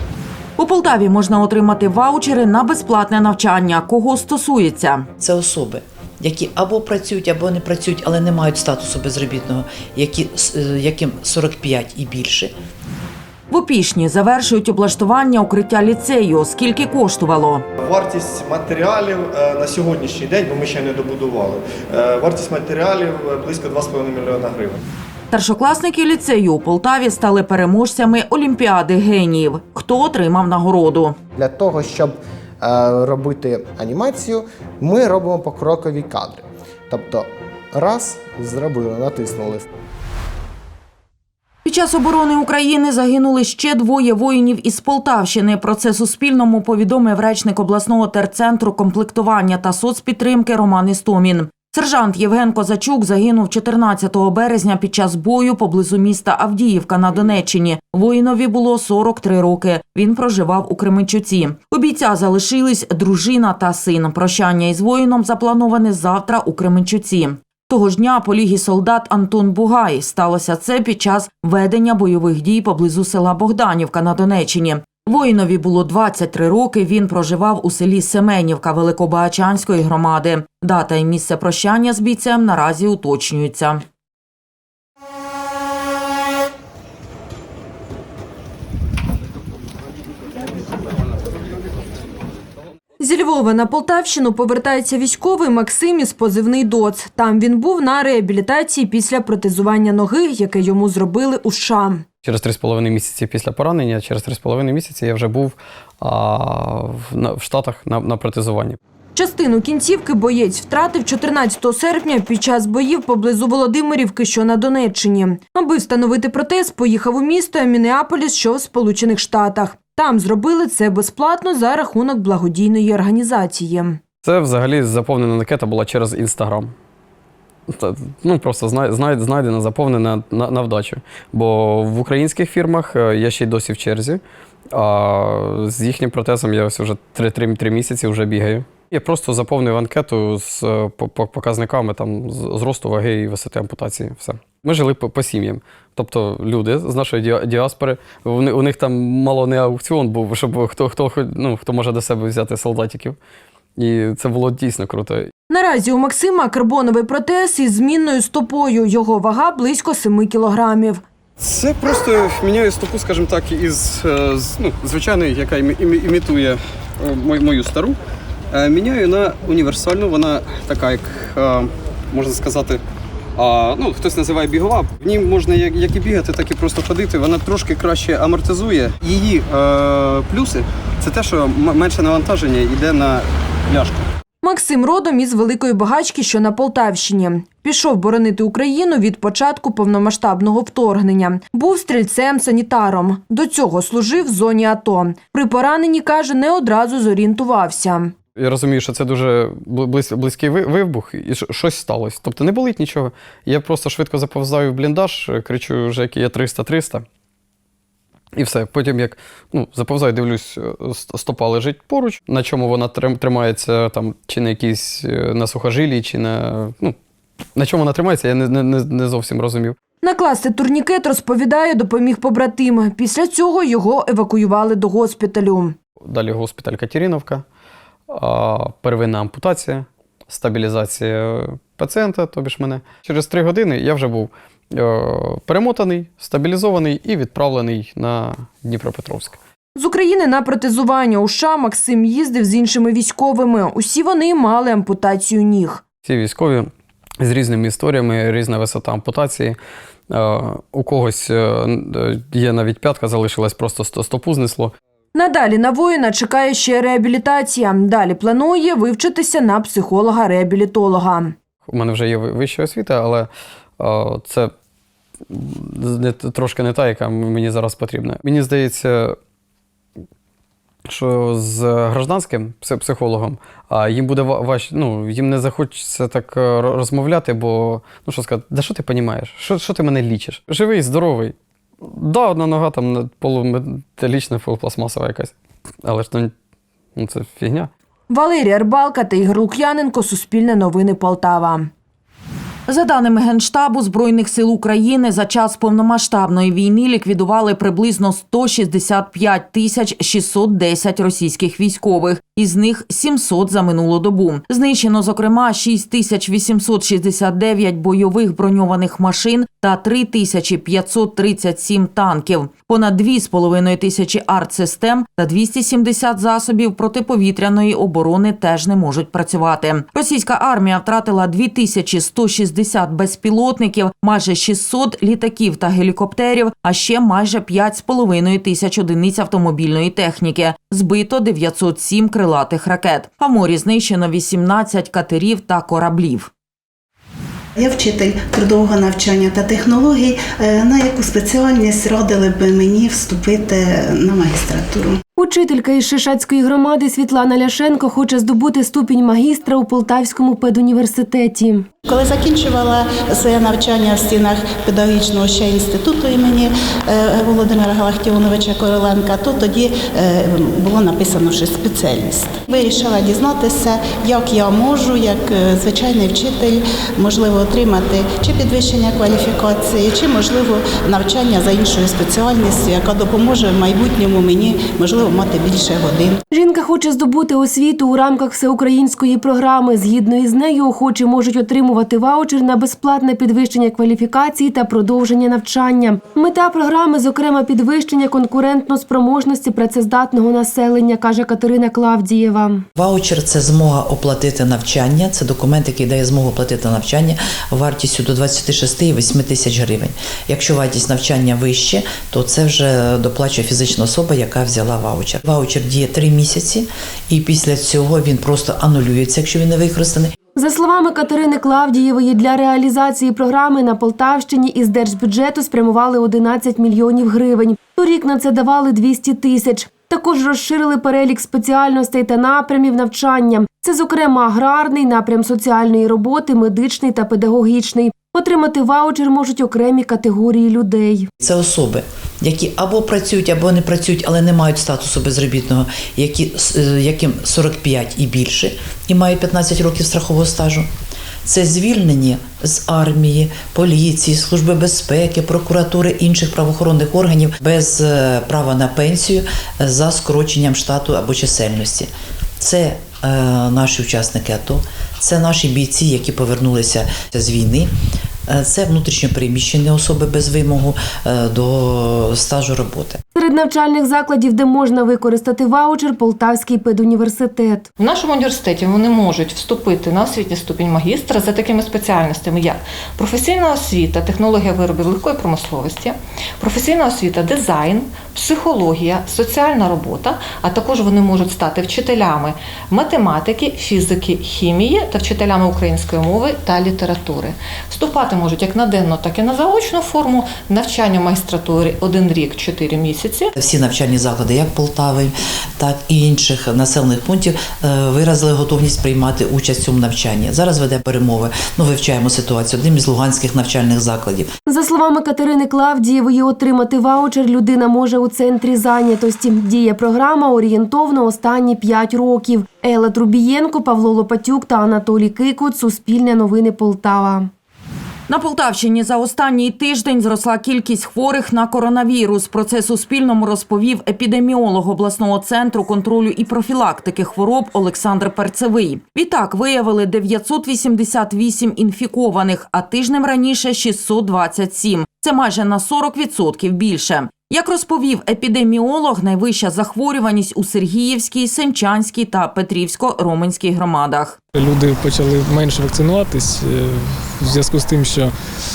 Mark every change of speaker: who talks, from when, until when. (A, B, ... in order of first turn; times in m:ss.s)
0:00.6-0:05.1 A
0:05.2-0:12.5 B
0:13.5-0:17.6 A
0:17.8-0:24.8 C
0:25.3-0:31.2 A
0:31.4-0:39.7 D
0:41.6-1:23.8 A
1:33.0-1:42.0 E
1:42.2-1:48.8 F
1:49.2-2:04.0 E
2:04.2-2:06.7 F
2:07.7-2:14.2 F
2:14.7-2:33.2 F
2:33.8-2:35.3 F
2:35.5-2:41.0 E
2:41.4-2:48.0 F
2:48.5-2:52.8 F
2:53.4-3:03.9 F
3:04.4-3:18.1 E
3:18.3-3:27.1 F
3:28.3-3:37.0 F
3:37.5-3:39.8 F
3:40.0-3:45.8 E
3:46.0-3:47.4 F
3:48.1-3:59.4 F
3:59.8-4:05.8 E
4:06.0-4:09.6 F
4:10.1-4:14.8 F
4:15.1-4:21.3 E
4:21.6-4:24.5 F
4:25.3-4:29.2 F
4:30.9-4:45.3 F
4:45.8-4:46.3 F
4:47.0-4:47.7 F
4:48.1-4:51.7 E
4:52.7-5:36.3 A
5:37.6-5:45.0 G
5:45.2-5:51.7 H
5:51.9-6:16.2 G
6:16.3-6:32.6 H
6:32.8-6:50.1 B
6:50.4-7:11.1 H
7:11.2-7:20.7 B
7:21.2-7:37.7 B
7:38.3-7:43.0 B
7:43.1-7:47.7 H
7:47.8-8:13.3 I
8:13.4-8:24.3 B
8:24.4-8:37.3 H
8:38.1-9:04.2 A
9:04.3-9:08.1 J